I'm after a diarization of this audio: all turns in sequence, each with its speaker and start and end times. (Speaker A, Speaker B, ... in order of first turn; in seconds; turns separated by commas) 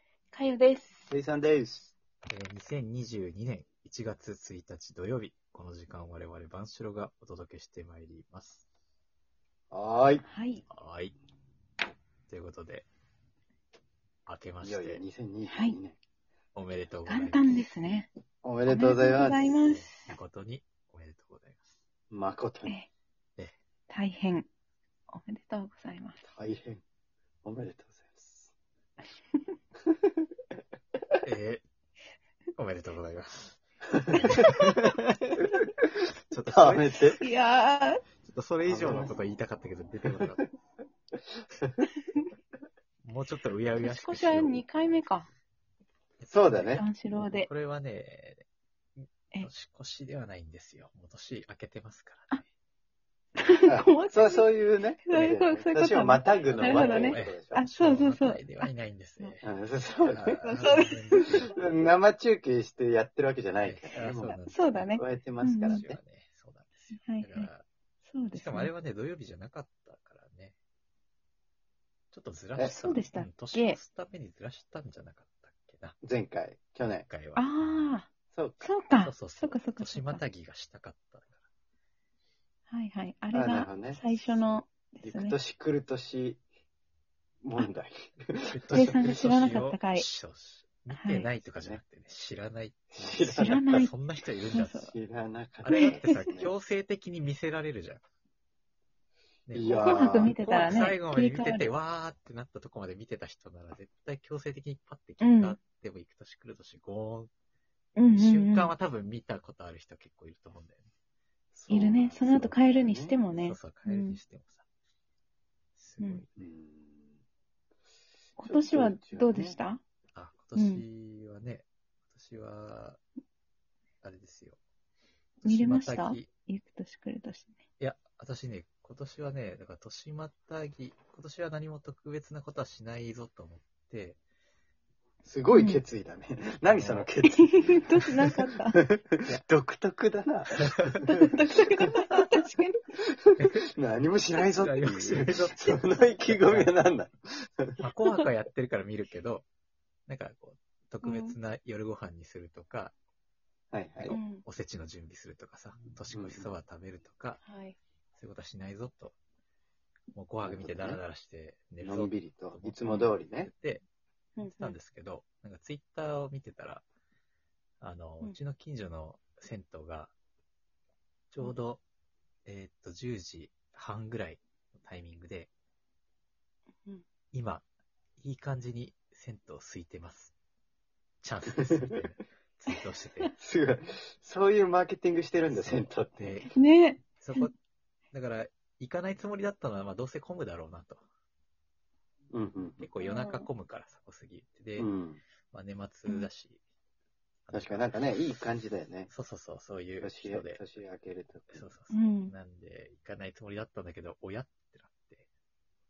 Speaker A: 0.3-1.1, Speaker B: 1.1-1.9, Speaker C: 2.3-8.7, Speaker B: 9.7-10.2, Speaker A: 10.2-10.6, Speaker C: 10.7-11.1, Speaker C: 12.3-12.9, Speaker C: 14.2-15.0, Speaker B: 14.6-16.0, Speaker A: 15.5-15.8, Speaker C: 16.5-17.5, Speaker A: 17.1-18.1, Speaker B: 18.4-19.8, Speaker A: 18.6-20.1, Speaker C: 19.6-21.8, Speaker B: 22.1-22.7, Speaker A: 23.9-24.5, Speaker A: 25.1-26.2, Speaker B: 26.2-26.8, Speaker B: 27.4-28.5, Speaker B: 29.9-30.1, Speaker C: 31.2-31.6, Speaker C: 32.5-33.6, Speaker B: 34.0-37.2, Speaker C: 34.2-34.8, Speaker C: 36.3-37.2, Speaker A: 37.2-38.0, Speaker C: 38.2-40.5, Speaker B: 38.7-39.1, Speaker B: 41.5-41.8, Speaker C: 43.0-45.0, Speaker A: 43.8-45.3, Speaker C: 46.2-48.4, Speaker B: 46.3-46.8, Speaker A: 46.8-47.5, Speaker C: 49.0-52.5, Speaker A: 53.4-61.5, Speaker B: 53.7-57.6, Speaker C: 56.4-59.5, Speaker B: 59.4-60.4, Speaker C: 60.1-61.6, Speaker B: 61.3-64.3, Speaker C: 63.6-65.0, Speaker A: 64.3-65.8, Speaker B: 64.9-66.0, Speaker C: 65.6-67.6, Speaker A: 66.9-67.5, Speaker A: 68.0-68.7, Speaker C: 68.3-70.5, Speaker C: 72.1-76.0, Speaker B: 72.5-72.9, Speaker A: 72.6-73.8, Speaker B: 76.0-77.1, Speaker C: 77.1-77.9, Speaker A: 77.3-78.1, Speaker B: 78.3-78.7, Speaker A: 78.6-80.2, Speaker C: 79.0-81.5, Speaker A: 82.7-85.4, Speaker B: 83.3-84.0, Speaker C: 84.1-84.6, Speaker B: 85.0-86.4, Speaker B: 87.4-89.0, Speaker C: 88.5-94.8, Speaker A: 88.7-90.1, Speaker A: 90.9-91.3, Speaker B: 91.5-91.8, Speaker B: 92.9-93.6, Speaker A: 93.2-94.9, Speaker B: 94.8-96.5, Speaker C: 95.6-98.0, Speaker A: 95.7-96.2, Speaker C: 99.5-107.3, Speaker B: 99.5-100.3, Speaker A: 99.8-101.7, Speaker A: 105.2-105.6, Speaker A: 108.0-108.7, Speaker C: 108.0-110.9, Speaker B: 111.5-113.2, Speaker A: 111.7-114.2, Speaker C: 111.7-112.5, Speaker C: 113.3-114.7, Speaker C: 115.8-116.3, Speaker B: 116.3-117.2, Speaker B: 118.4-119.6, Speaker A: 118.4-119.8, Speaker C: 120.1-123.0, Speaker A: 120.5-120.8, Speaker C: 124.0-124.6, Speaker C: 125.4-126.3, Speaker A: 125.4-127.6, Speaker C: 127.8-134.2, Speaker B: 135.2-141.1, Speaker A: 135.5-135.8, Speaker C: 136.7-137.1, Speaker A: 137.2-138.8, Speaker A: 141.0-142.9, Speaker B: 143.2-147.8, Speaker C: 144.6-146.7, Speaker C: 147.8-149.4, Speaker C: 150.1-152.9, Speaker A: 151.0-151.3, Speaker B: 153.7-154.2, Speaker C: 154.0-157.4, Speaker A: 154.1-154.4, Speaker B: 156.1-156.5, Speaker A: 157.4-157.8, Speaker C: 158.2-159.1, Speaker C: 160.1-163.8, Speaker B: 160.4-161.0, Speaker B: 161.8-163.5, Speaker A: 164.4-164.8, Speaker C: 164.4-166.8, Speaker C: 167.8-170.1, Speaker C: 171.3-171.8, Speaker C: 172.4-175.5, Speaker C: 177.3-177.6, Speaker C: 178.2-180.3, Speaker C: 181.2-183.3, Speaker B: 183.4-186.4, Speaker C: 185.5-186.6, Speaker A: 186.5-187.5, Speaker C: 187.2-187.5, Speaker C: 188.1-191.0, Speaker B: 192.3-192.9, Speaker C: 192.8-194.9, Speaker A: 193.0-193.5, Speaker B: 194.8-195.2, Speaker C: 195.5-196.6, Speaker C: 197.5-198.0, Speaker B: 197.5-199.1, Speaker C: 199.1-200.6, Speaker B: 200.0-201.7, Speaker C: 201.5-205.2, Speaker A: 201.9-202.3